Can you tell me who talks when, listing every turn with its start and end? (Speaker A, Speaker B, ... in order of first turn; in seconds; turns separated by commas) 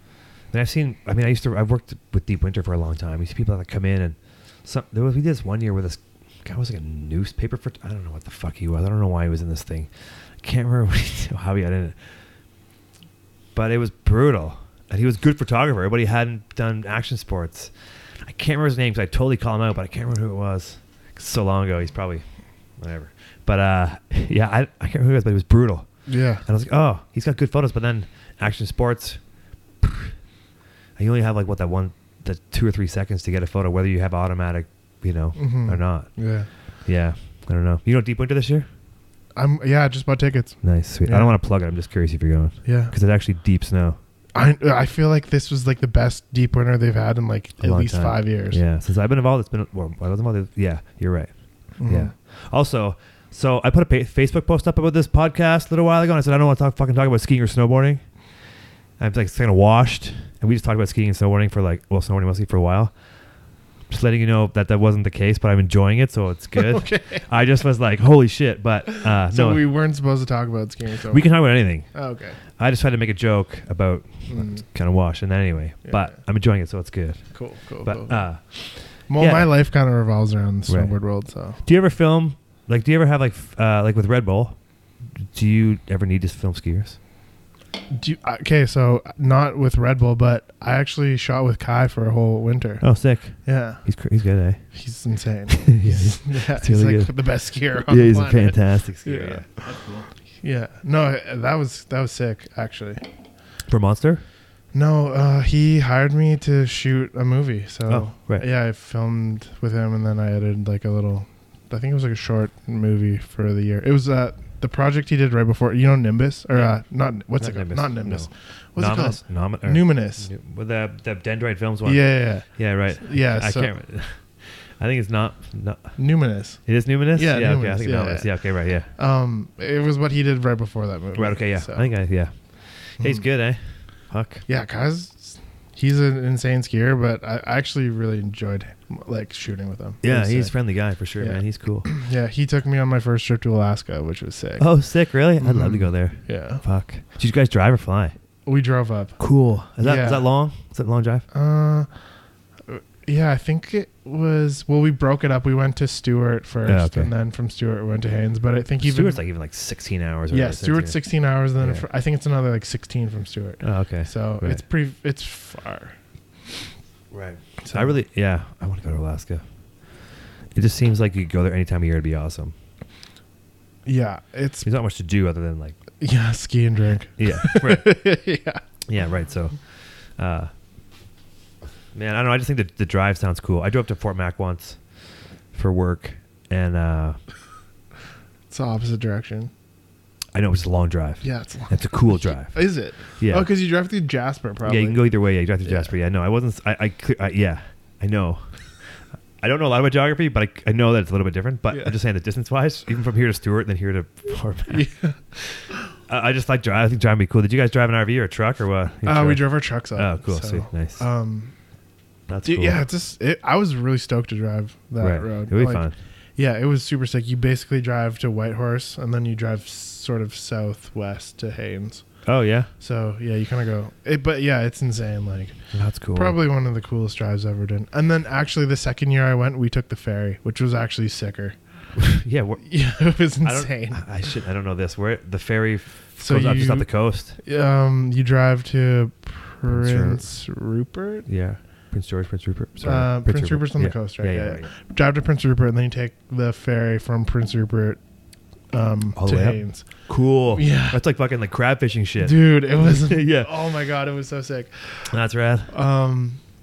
Speaker A: 0.5-12.2, Speaker A: 13.6-29.2, Speaker B: 26.1-26.4, Speaker A: 29.8-30.1, Speaker A: 31.0-38.7, Speaker B: 35.4-36.5, Speaker B: 39.3-41.4, Speaker A: 40.6-44.0, Speaker B: 42.6-42.9, Speaker B: 44.4-48.6, Speaker A: 47.6-58.4, Speaker B: 51.8-52.1, Speaker A: 59.0-63.0, Speaker A: 63.9-69.7, Speaker B: 66.5-67.3, Speaker B: 69.1-72.4, Speaker A: 71.1-71.9, Speaker A: 72.5-79.5, Speaker B: 74.3-74.7, Speaker B: 75.8-76.2, Speaker B: 77.3-78.3, Speaker B: 79.1-81.6, Speaker A: 80.7-81.0, Speaker A: 81.6-84.6, Speaker A: 85.2-87.0, Speaker B: 87.9-93.8, Speaker A: 92.8-94.7, Speaker B: 94.7-99.8, Speaker A: 95.5-100.1, Speaker B: 100.4-103.1, Speaker A: 103.7-104.2, Speaker B: 104.7-120.3, Speaker A: 107.9-108.5, Speaker A: 116.5-116.8, Speaker A: 117.4-126.0, Speaker B: 121.8-123.7, Speaker B: 126.0-131.9, Speaker A: 126.7-128.9, Speaker A: 131.2-134.4, Speaker B: 133.0-133.2, Speaker B: 134.5-140.6, Speaker A: 140.0-141.9, Speaker B: 141.2-144.7, Speaker A: 144.6-148.2, Speaker B: 145.4-146.6, Speaker B: 148.5-149.2, Speaker A: 149.2-151.3, Speaker B: 149.8-150.3, Speaker B: 151.3-152.0, Speaker B: 152.7-159.2, Speaker A: 156.7-157.1, Speaker A: 158.8-161.0, Speaker B: 160.3-166.0, Speaker A: 161.6-161.9, Speaker A: 163.6-164.6, Speaker A: 167.1-169.4, Speaker B: 167.6-168.0, Speaker A: 170.5-172.6, Speaker B: 173.8-174.7, Speaker A: 174.7-175.8, Speaker B: 176.0-178.6, Speaker A: 177.2-178.0, Speaker A: 178.8-180.5, Speaker A: 181.9-184.8, Speaker A: 185.5-187.2, Speaker B: 188.5-189.5, Speaker A: 190.3-193.5, Speaker B: 191.2-195.0, Speaker A: 194.7-211.1, Speaker B: 195.6-195.9, Speaker B: 204.7-205.2, Speaker B: 209.0-211.5, Speaker A: 212.3-212.8, Speaker B: 212.4-222.1, Speaker A: 215.0-215.9, Speaker A: 222.2-222.7, Speaker B: 222.8-231.6, Speaker A: 225.7-226.4, Speaker A: 231.9-232.7, Speaker B: 232.6-234.1, Speaker A: 233.4-237.4, Speaker B: 236.2-241.3, Speaker A: 239.7-240.3, Speaker A: 241.3-244.7, Speaker B: 242.8-248.0, Speaker B: 248.7-251.0, Speaker A: 249.2-253.5, Speaker B: 252.2-255.1, Speaker A: 255.1-255.7, Speaker B: 255.7-256.4